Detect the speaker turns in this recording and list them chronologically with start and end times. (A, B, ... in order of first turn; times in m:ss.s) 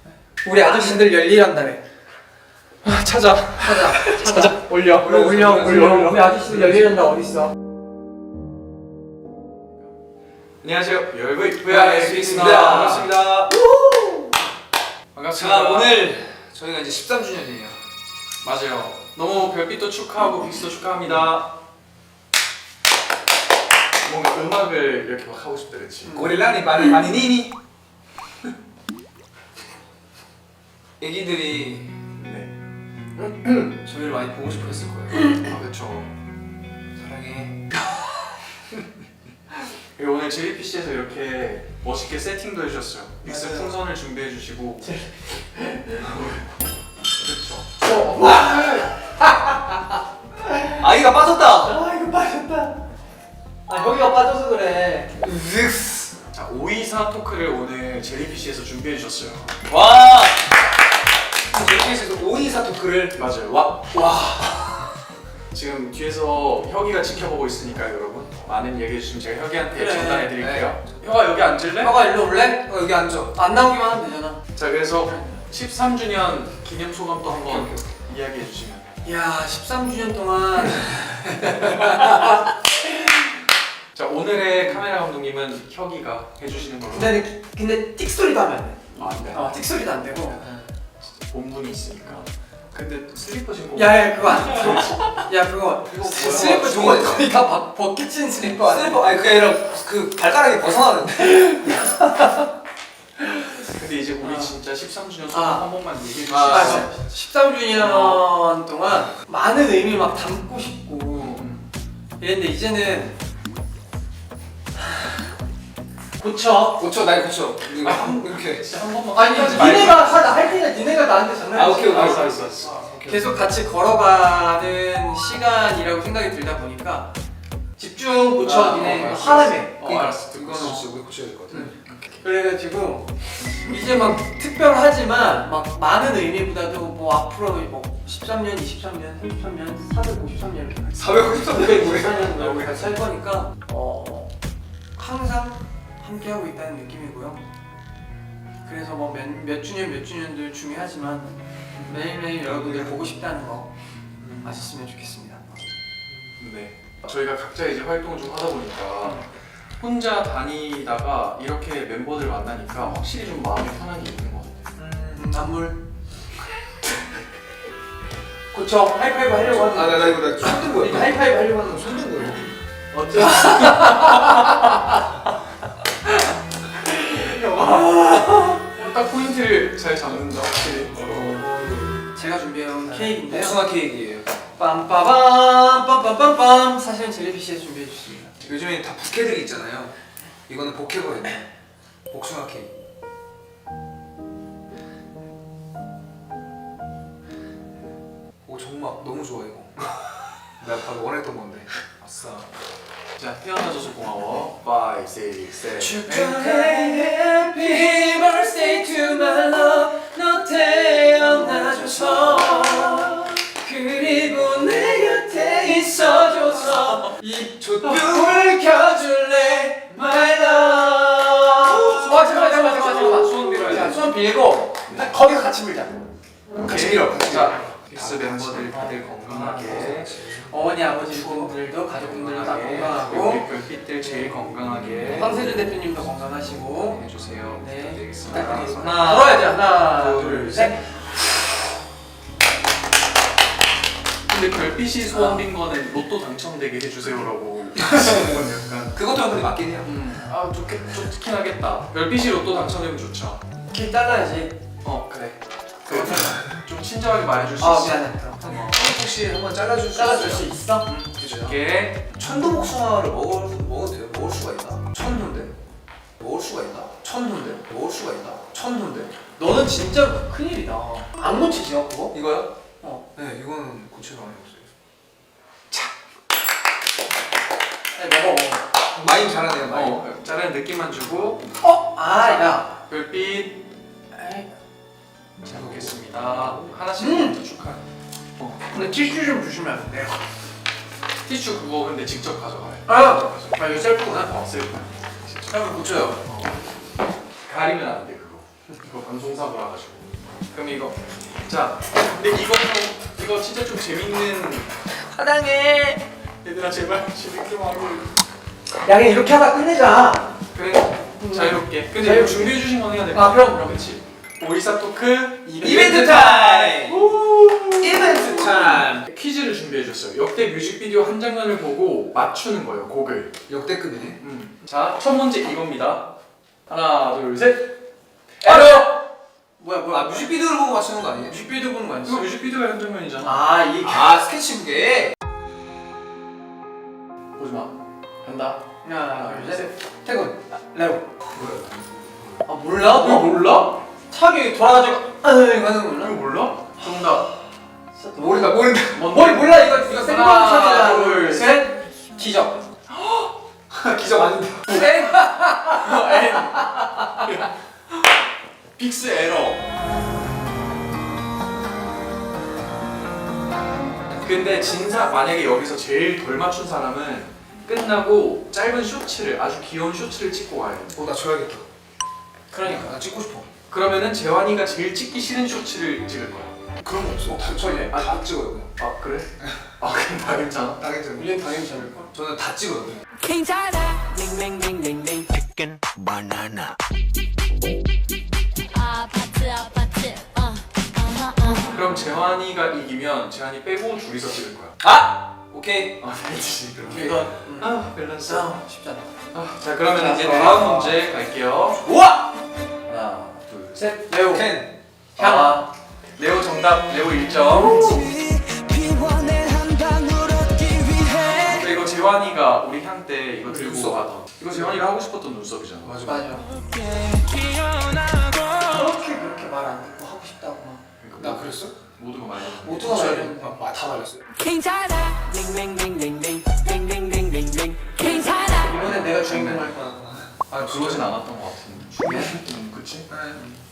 0:00.4-0:01.8 A
0:00.7-0:01.1 B
0:02.8-0:06.2 C
0:03.6-0:04.7 A
0:05.0-0:07.0 B
0:05.7-0:07.5 A
0:10.6-0:13.2 C
0:11.7-0:14.3 B
0:15.1-0:16.1 C
0:15.4-0:17.8 B
0:18.4-0:21.5 C
0:24.0-0:26.3 C
0:26.1-0:27.6 B
0:31.0-0:32.0 B
0:32.2-0:32.5 C
0:33.2-0:33.4 C
0:33.4-0:35.3 B
0:35.2-0:36.1 C
0:37.0-0:37.7 B
0:40.0-0:44.9 C
0:43.2-0:43.7 B
0:44.8-0:46.2 A
0:47.2-0:48.8 C
0:47.8-0:48.9 A
0:48.2-0:48.7 B
0:50.4-0:50.9 A
0:50.8-0:51.8 B
0:51.6-0:52.8 A
0:53.7-0:55.1 A
0:55.2-0:56.2 B
0:56.3-0:59.6 C
0:59.7-1:00.5 B
1:01.5-1:03.3 B
1:03.2-1:03.9 C
1:03.9-1:04.8 B
1:05.5-1:12.0 C
1:09.7-1:10.3 A
1:10.4-1:10.8 B
1:11.8-1:12.7 A
1:12.1-1:13.4 B
1:13.3-1:14.4 A
1:14.6-1:18.9 C
1:17.4-1:17.9 B
1:19.0-1:22.3 A
1:23.9-1:27.2 C
1:26.9-1:30.4 A
1:29.0-1:29.6 B
1:30.4-1:30.7 B
1:31.0-1:35.2 C
1:33.7-1:39.1 A
1:35.9-1:36.8 C
1:36.0-1:37.4 B
1:38.6-1:41.8 B
1:41.4-1:42.4 A
1:43.6-1:46.9 C
1:44.2-1:44.6 A
1:45.3-1:45.7 A
1:46.3-1:46.9 B
1:46.5-1:51.4 A
1:47.7-1:48.2 C
1:51.1-1:51.7 C
1:52.2-1:53.2 A
1:54.9-1:55.2 A
1:56.2-1:56.8 A
1:56.8-1:58.7 B
1:57.8-2:00.3 C
1:59.1-2:02.3 A
1:59.5-2:00.2 B
2:01.5-2:03.4 B
2:01.8-2:02.7 C
2:03.0-2:07.1 A
2:07.8-2:10.7 A
2:08.4-2:10.8 C
2:08.8-2:09.1 B
2:10.1-2:11.8 B
2:11.5-2:24.3 A
2:11.7-2:12.2 C
2:20.9-2:22.9 B
2:25.0-2:27.4 A
2:28.6-2:33.7 A
2:32.5-2:33.0 B
2:34.2-2:34.6 B
2:34.4-2:35.7 A
2:36.4-2:39.2 C
2:39.8-2:44.6 C
2:44.8-2:45.2 B
2:45.0-2:45.8 A
2:48.5-2:51.9 A
2:49.4-2:52.5 B
2:52.9-2:54.5 C
2:53.3-2:54.3 A
2:56.8-2:58.7 A
2:58.7-3:01.4 C
3:01.0-3:02.0 B
3:02.1-3:03.6 A
3:02.9-3:04.3 B
3:04.6-3:08.4 A
3:08.4-3:09.9 B
3:10.5-3:11.4 B
3:12.1-3:12.7 B
3:18.4-3:20.0 B
3:20.6-3:22.5 B
3:23.2-3:26.4 C
3:25.8-3:46.0 A
3:25.8-3:29.6 B
3:31.2-3:33.2 B
3:36.2-3:36.8 B
3:37.6-3:38.5 B
3:40.2-3:42.2 B
3:41.7-3:44.1 C
3:46.6-3:48.8 B
3:46.6-3:50.1 C
3:48.7-3:53.4 A
3:49.6-3:50.5 B
3:51.1-3:51.5 B
3:51.9-3:55.6 C
3:55.1-3:57.0 A
3:56.8-4:00.8 C
3:57.6-4:00.8 A
3:58.2-3:59.2 B
4:04.3-4:09.0 C
4:05.1-4:05.5 A
4:08.9-4:09.9 B
4:09.8-4:13.4 C
4:13.7-4:14.6 A
4:14.8-4:18.9 C
4:15.9-4:16.2 A
4:17.6-4:18.5 A
4:18.4-4:20.5 B
4:19.9-4:20.9 A
4:20.8-4:22.0 C
4:21.2-4:21.6 B
4:22.1-4:25.5 B
4:26.2-4:29.1 B
4:29.4-4:32.2 A
4:32.1-4:32.5 B
4:33.2-4:34.7 B
4:37.9-4:38.6 A
4:38.9-4:40.0 B
4:39.6-4:41.4 C
4:41.6-4:42.7 A
4:42.2-4:43.6 C
4:44.1-4:44.5 A
4:45.4-4:46.8 B
4:45.4-4:47.8 C
4:47.0-4:47.4 A
4:48.4-4:49.0 C
4:48.7-4:50.2 A
4:51.3-4:55.6 C
4:52.9-4:54.4 A
4:55.5-4:56.2 B
4:56.2-4:56.6 C
4:57.4-5:04.7 C
5:05.1-5:06.0 B
5:06.4-5:08.1 C
5:08.8-5:10.3 A
5:10.5-5:23.4 C
5:11.2-5:13.7 A
5:15.5-5:16.7 A
5:15.6-5:17.1 B
5:17.8-5:19.1 B
5:23.5-5:24.2 B
5:24.2-5:26.1 C
5:26.7-5:27.7 C
5:28.4-5:28.9 C
5:28.4-5:28.9 A
5:29.6-5:30.4 A
5:29.9-5:31.4 B
5:31.2-5:32.3 A
5:32.0-5:33.5 C
5:33.2-5:34.2 A
5:33.8-5:35.2 B
5:37.4-5:39.7 C
5:38.8-5:41.0 A
5:41.3-5:42.4 B
5:42.4-5:46.2 A
5:42.8-5:43.7 C
5:46.0-5:47.3 C
5:47.9-5:52.6 A
5:48.2-5:49.1 B
5:49.0-5:51.7 C
5:52.9-5:53.3 C
5:53.7-5:54.9 B
5:54.7-5:56.2 A
5:54.7-5:57.5 C
5:58.8-5:59.7 C
6:04.2-6:11.0 C
6:10.9-6:11.7 B
6:12.5-6:13.0 A
6:12.6-6:13.5 B
6:13.7-6:16.6 C
6:16.8-6:18.7 B
6:17.3-6:18.2 C
6:18.8-6:20.8 C
6:20.8-6:21.4 B
6:21.2-6:22.1 A
6:22.1-6:23.0 B
6:23.2-6:25.3 D
6:28.8-6:30.5 D
6:31.2-6:31.6 D
6:31.6-6:34.8 C
6:34.8-6:36.0 B
6:36.0-6:38.5 C
6:36.9-6:39.1 A
6:39.3-6:41.8 C
6:40.0-6:40.6 A
6:40.3-6:41.0 B
6:41.8-6:42.3 B
6:42.9-6:43.9 C
6:43.8-6:44.6 A
6:44.3-6:44.7 B
6:45.2-6:45.6 A
6:45.2-6:48.0 C
6:47.8-6:51.6 D
6:51.4-6:56.1 C
6:53.4-6:54.0 B
6:55.8-6:56.2 B
6:56.0-6:56.5 A
6:56.7-6:58.6 D
6:58.6-7:00.8 A
7:01.0-7:03.3 C
7:01.2-7:01.8 B
7:02.6-7:03.6 A
7:02.8-7:04.3 B
7:04.4-7:08.7 D
7:08.5-7:10.3 A
7:08.7-7:09.8 C
7:10.3-7:11.1 B
7:10.5-7:13.1 C
7:12.0-7:12.3 A
7:13.1-7:13.4 B